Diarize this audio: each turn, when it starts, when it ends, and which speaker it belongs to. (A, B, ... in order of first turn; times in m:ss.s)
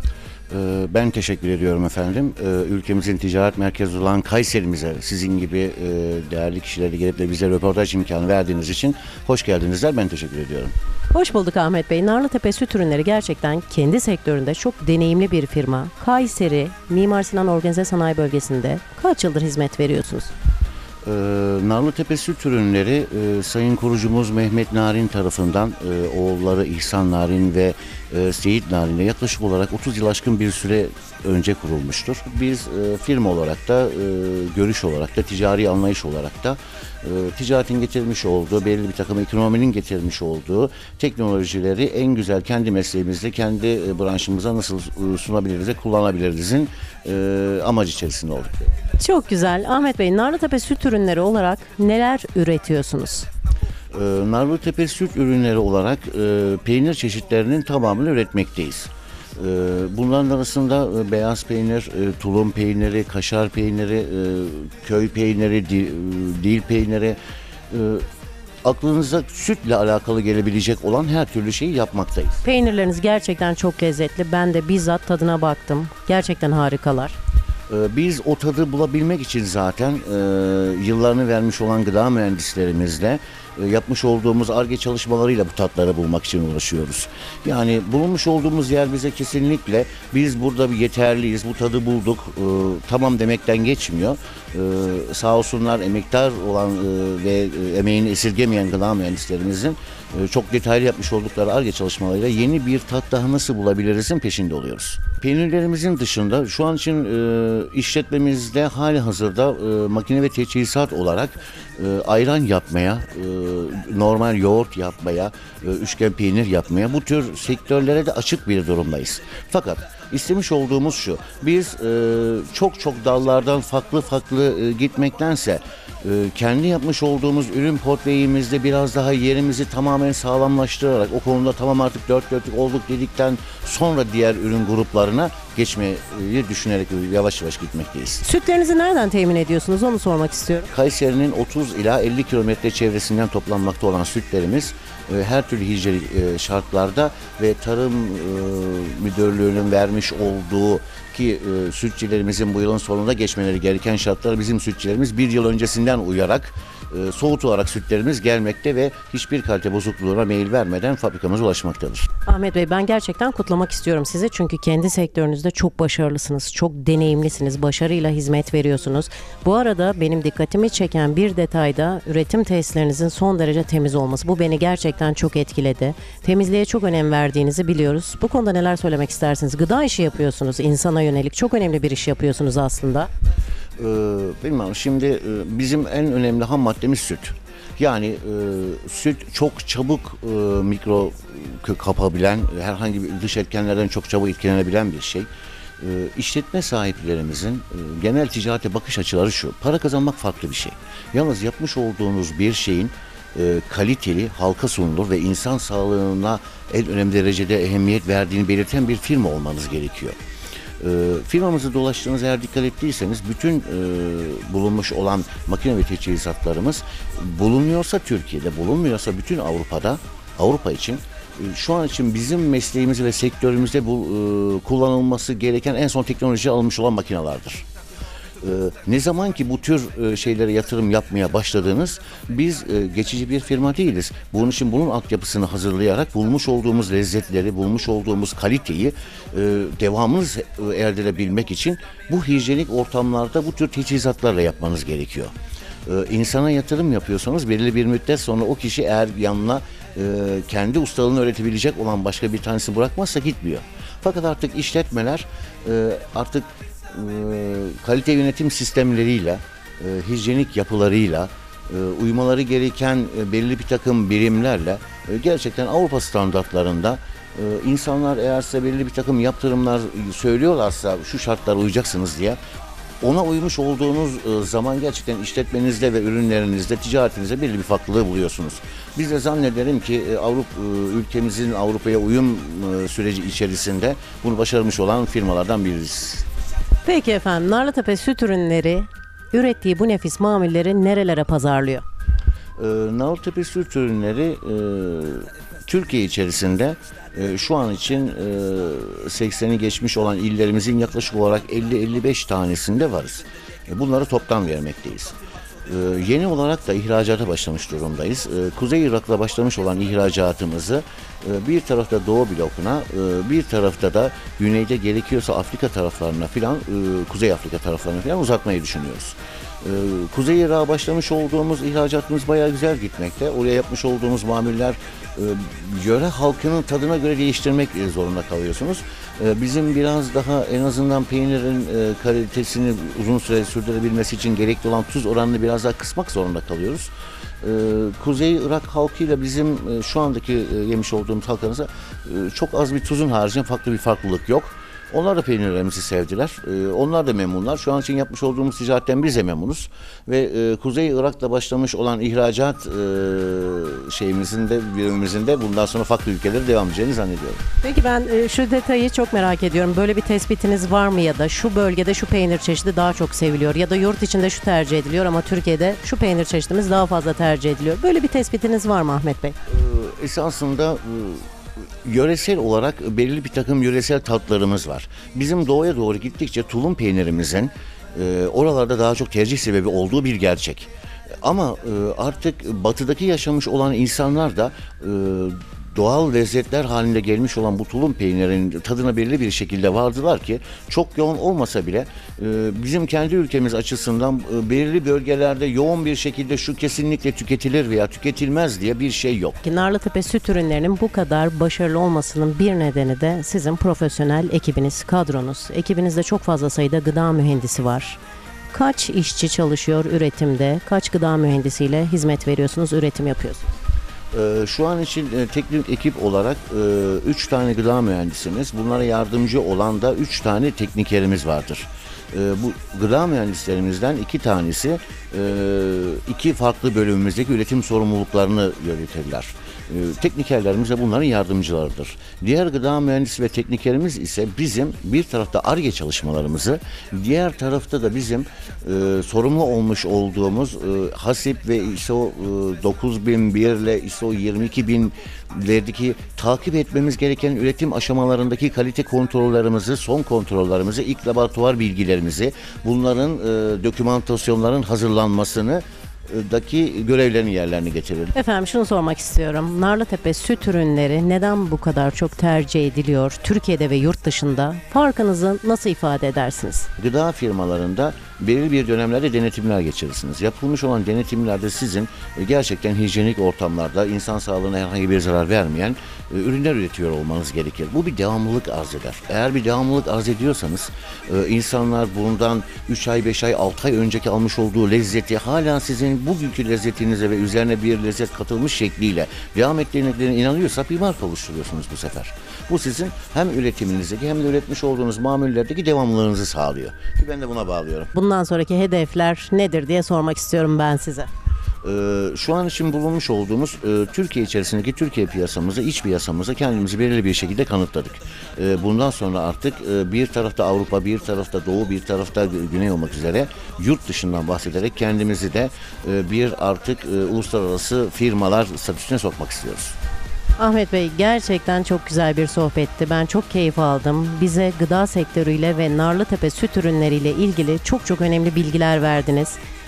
0:00.5-0:10.7 A
0:11.1-0:20.3 B
0:21.0-0:48.7 A
0:49.0-0:53.3 B
0:53.9-1:07.2 A
1:07.7-1:08.0 A
1:08.6-1:12.4 A
1:12.4-1:17.2 B
1:17.7-2:18.2 A
2:18.2-2:20.7 B
2:20.7-2:42.1 A
2:42.2-3:03.1 B
3:03.8-3:15.3 A
3:15.8-3:30.2 A
3:30.8-3:47.6 A
3:48.4-4:05.3 A
4:05.9-4:32.4 A
4:33.0-4:46.2 A
4:46.8-4:51.8 B
4:52.6-5:36.9 A
5:37.4-5:57.4 A
5:57.6-6:09.4 B
6:09.5-6:11.2 A
6:11.8-6:20.7 A
6:21.2-6:39.4 A
6:39.4-6:48.0 B
6:48.5-6:53.5 B
6:54.1-7:38.1 A
7:38.1-7:46.7 B
7:46.8-8:17.9 A
8:17.9-8:21.1 B
8:21.6-8:39.8 A
8:40.4-8:49.4 B